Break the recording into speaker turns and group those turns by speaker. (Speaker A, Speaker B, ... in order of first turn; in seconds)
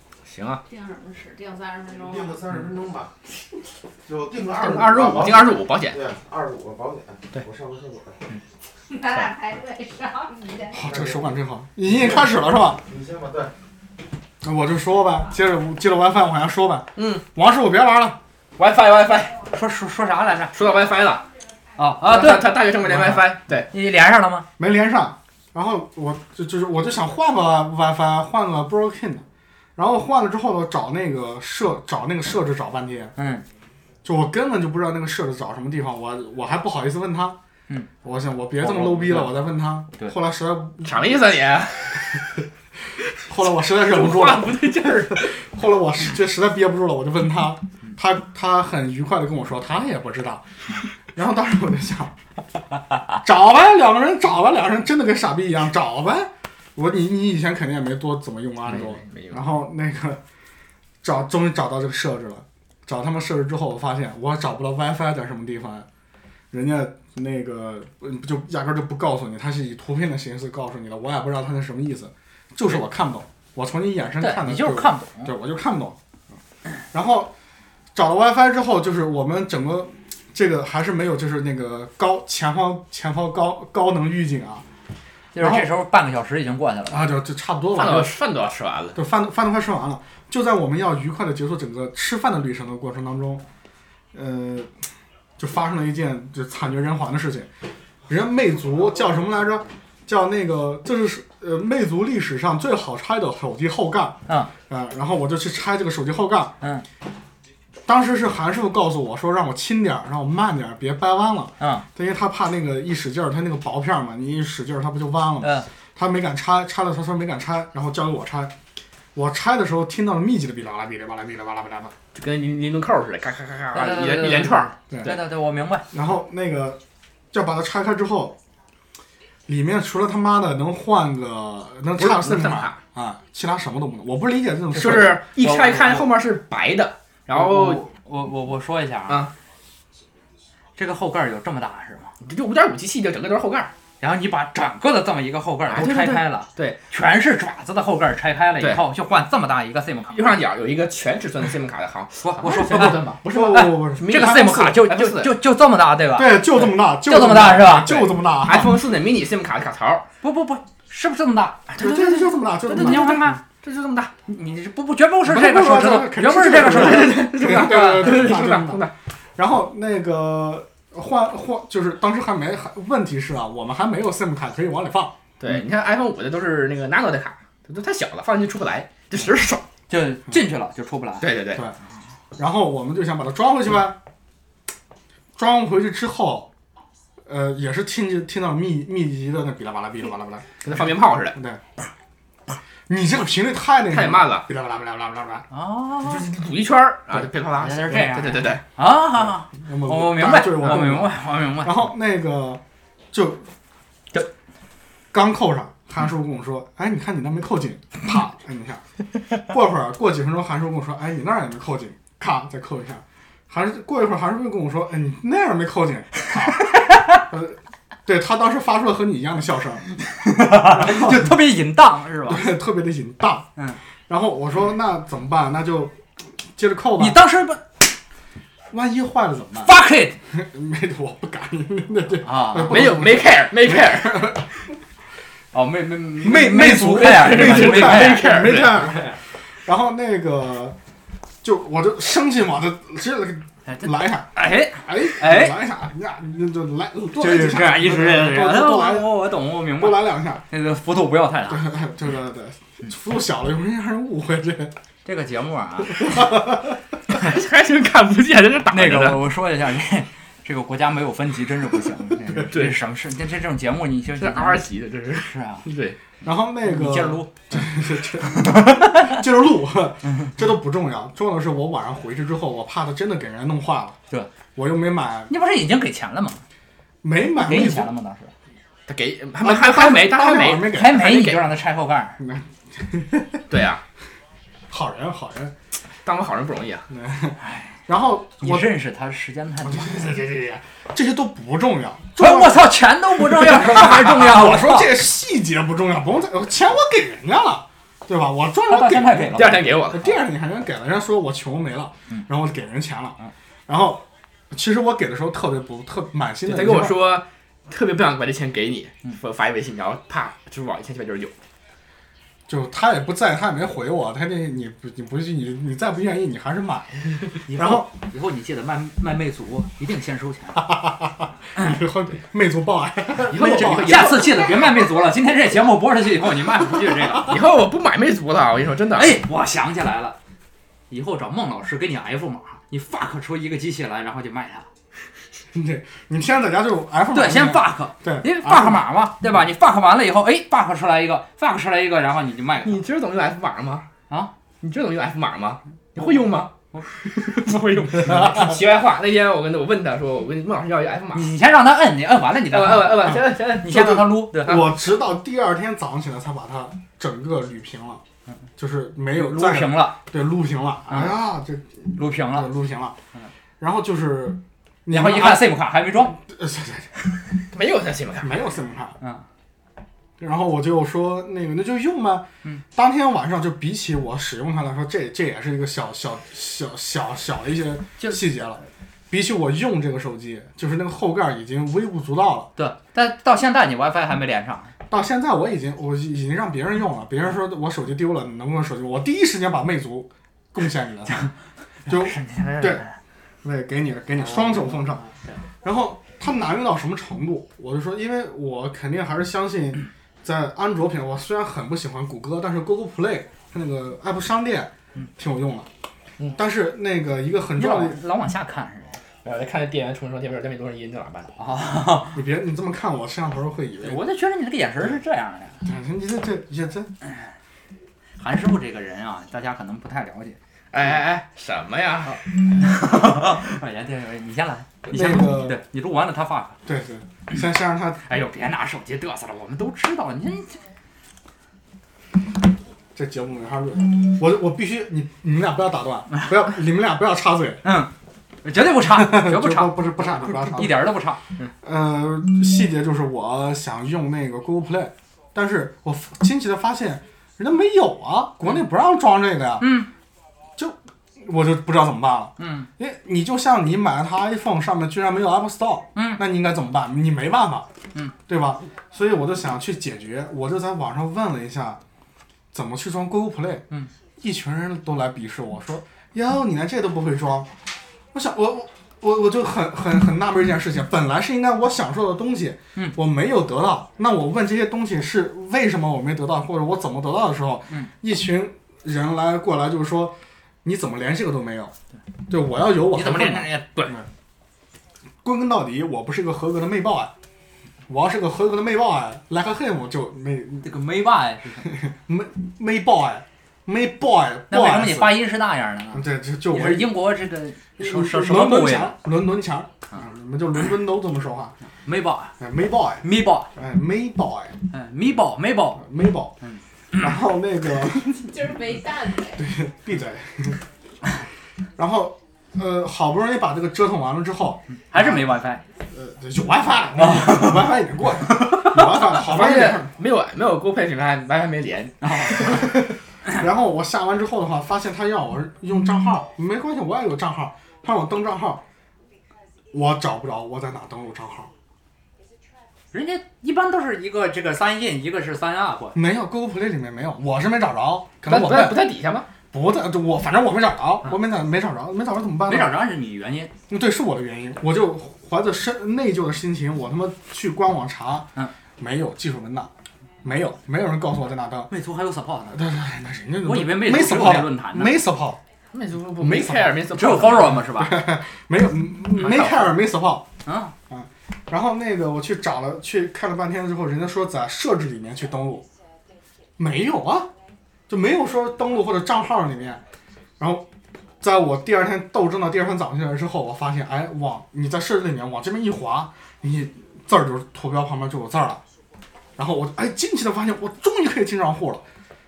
Speaker A: 0.2-0.6, 4.5-6.0, 17.0-17.2, 18.6-19.5, 20.5-21.3, 22.1-23.7, 40.8-42.2, 43.7-45.5, 58.7-59.4, 87.7-89.0, 122.2-125.2, 132.0-132.8, 134.7-137.8, 142.2-143.7, 145.7-146.8, 150.1-155.3, 157.9-160.1, 161.7-164.1, 166.6-168.9, 175.4-179.7, 181.2-181.6, 190.6-191.4, 193.9-194.5, 196.0-198.6, 232.6-234.3, 236.9-239.1, 257.1-259.2, 262.5-262.8, 264.2-266.0, 278.9-281.5, 283.5-283.8, 286.1-286.9, 299.3-300.2, 306.5-311.3, 323.2-324.5, 327.2-329.2, 342.6-343.9, 344.6-351.3, 352.5-354.7, 367.5-368.5, 409.2-411.3, 420.7-422.2, 518.6-522.8, 538.2-539.3, 555.7-557.6
Speaker B: 0.7-2.4, 8.9-10.8, 508.1-509.5
Speaker C: 1.9-3.1, 4.0-8.2, 10.7-11.2, 12.8-13.5
Speaker D: 10.7-12.8, 14.4-18.2, 22.9-23.2, 24.6-29.2, 29.8-33.1, 34.0-37.4, 38.0-41.0, 43.2-50.5, 51.1-52.1, 53.2-60.2, 61.0-65.9, 66.5-76.0, 76.9-77.3, 77.9-84.6, 85.4-85.7, 86.9-88.2, 89.0-93.4, 94.1-94.8, 95.4-97.5, 98.1-106.5, 107.9-118.5, 119.2-122.0, 125.9-126.8, 127.3-128.4, 129.5-135.3, 152.7-154.7, 156.1-158.8, 161.8-163.4, 165.2-175.2, 182.4-184.0, 185.4-186.5, 187.3-190.8, 191.3-191.6, 192.9-195.5, 199.6-203.5, 205.1-208.8, 209.5-219.9, 220.7-221.4, 222.3-223.5, 224.1-227.2, 228.7-229.7, 230.3-234.5, 236.2-239.1, 239.7-240.8, 241.4-244.3, 244.8-250.4, 251.5-254.7, 255.9-256.8, 266.2-274.0, 274.6-275.3, 277.0-277.9, 279.4-281.0, 282.2-283.5, 284.7-285.6, 286.9-288.7, 289.6-303.2, 303.7-306.9, 312.5-317.9, 320.6-324.5, 335.5-338.9, 354.4-358.0, 358.6-363.0, 363.6-365.6, 366.1-366.9, 368.2-369.0, 370.2-382.5, 384.9-391.2, 391.9-392.8, 393.4-395.0, 395.6-405.7, 406.4-408.0, 412.1-414.0, 415.6-416.9, 424.9-425.6, 426.6-428.0, 432.9-437.6, 438.8-440.9, 441.6-449.7, 450.6-457.7, 458.3-461.8, 462.5-463.6, 464.2-467.5, 468.1-481.7, 482.3-484.1, 485.2-487.1, 487.9-490.7, 491.7-495.2, 495.9-497.0, 497.8-501.6, 502.4-504.6, 505.8-506.3, 507.0-508.5, 509.4-510.6, 511.8-515.3, 515.9-519.9, 522.5-528.6, 529.7-531.5, 535.9-538.9, 539.5-542.8, 543.7-549.7, 550.2-551.7, 552.5-555.4, 556.2-556.8, 557.3-560.3, 560.9-565.7, 566.6-567.3, 567.9-569.8, 570.4-570.7, 571.2-578.6, 579.4-581.9
Speaker E: 19.5-20.6, 21.8-23.0, 23.7-24.5, 33.2-33.5, 39.0-39.3, 74.2-75.3, 85.3-87.1, 111.6-111.9, 115.4-115.7, 123.7-125.9, 135.4-136.1, 137.3-139.3, 140.8-142.1, 144.0-150.3, 152.2-158.1, 160.2-161.8, 162.7-163.4, 164.1-168.3, 179.9-181.3, 195.5-196.3, 197.6-201.8, 216.7-217.2, 220.2-222.5, 227.0-227.7, 229.6-230.2, 232.2-232.9, 235.5-238.5, 243.7-245.6, 247.2-251.7, 255.1-256.2, 258.7-264.6, 265.2-265.7, 266.6-267.7, 268.2-269.2, 270.1-270.4, 275.3-276.4, 277.4-278.3, 280.6-282.2, 287.4-287.7, 288.4-290.2, 292.2-294.9, 298.7-299.6, 317.5-320.7, 323.6-327.3, 328.9-330.2, 330.9-334.7, 337.1-342.8, 351.1-354.6, 359.2-360.0, 360.9-361.2, 362.0-362.5, 364.9-366.2, 382.6-384.7, 391.9-392.9, 394.2-395.4, 407.6-409.0, 411.4-412.2, 413.8-415.6, 418.2-420.4, 422.1-426.6, 428.1-430.6, 437.6-437.9, 438.4-441.2, 449.6-449.9, 452.4-452.7, 455.9-456.2, 482.9-484.0, 490.6-491.7, 494.5-499.0, 501.9-502.4, 503.0-503.5, 504.7-505.9, 506.4-507.2, 514.7-515.6, 517.0-517.8, 518.3-518.6, 522.0-522.7, 532.9-536.0, 542.5-543.5, 551.7-552.7, 553.4-555.0, 556.9-558.0, 559.2-559.7, 560.5-560.7